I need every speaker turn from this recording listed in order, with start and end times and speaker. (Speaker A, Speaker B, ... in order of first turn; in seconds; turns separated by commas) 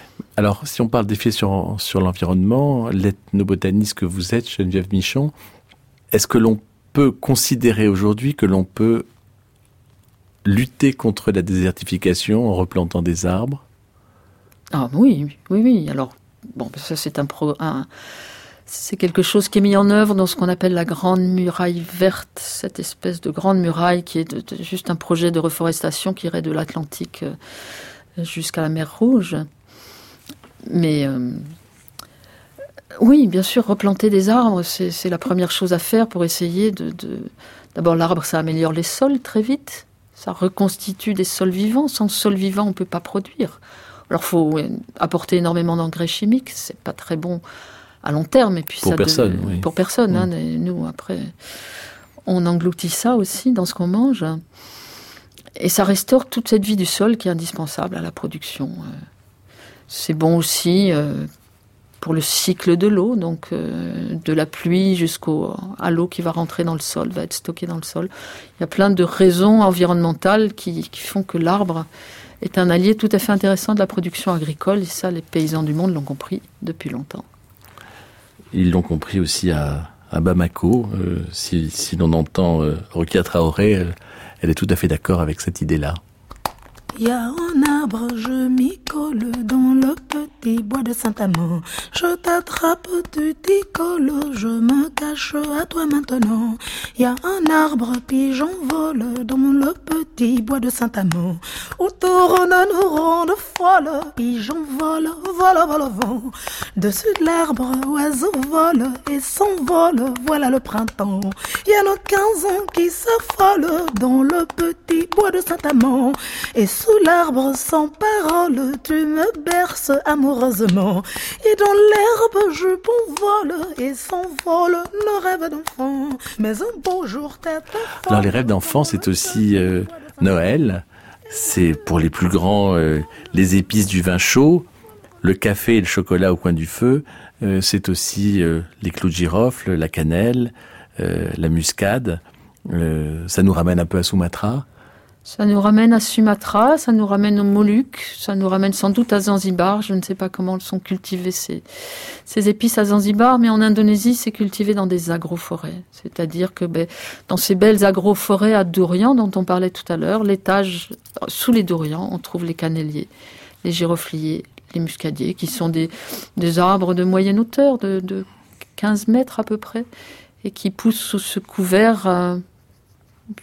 Speaker A: 0.4-5.3, Speaker A: 6.1-9.1, Speaker A: 10.4-13.6, Speaker B: 14.7-17.9, Speaker B: 18.7-27.3, Speaker B: 28.2-29.4, Speaker B: 30.6-31.5, Speaker B: 33.0-47.4, Speaker B: 48.0-51.3, Speaker A: 48.8-50.2, Speaker B: 52.3-54.4, Speaker B: 55.5-58.9, Speaker B: 59.9-61.3, Speaker B: 62.0-71.9, Speaker B: 72.4-77.2, Speaker A: 78.5-86.0, Speaker C: 87.0-130.6, Speaker A: 128.1-134.7, Speaker C: 131.3-131.8, Speaker A: 135.2-144.6, Speaker B: 145.2-151.6, Speaker B: 152.2-163.1, Speaker B: 163.6-168.2, Speaker B: 168.8-169.8, Speaker B: 170.4-172.4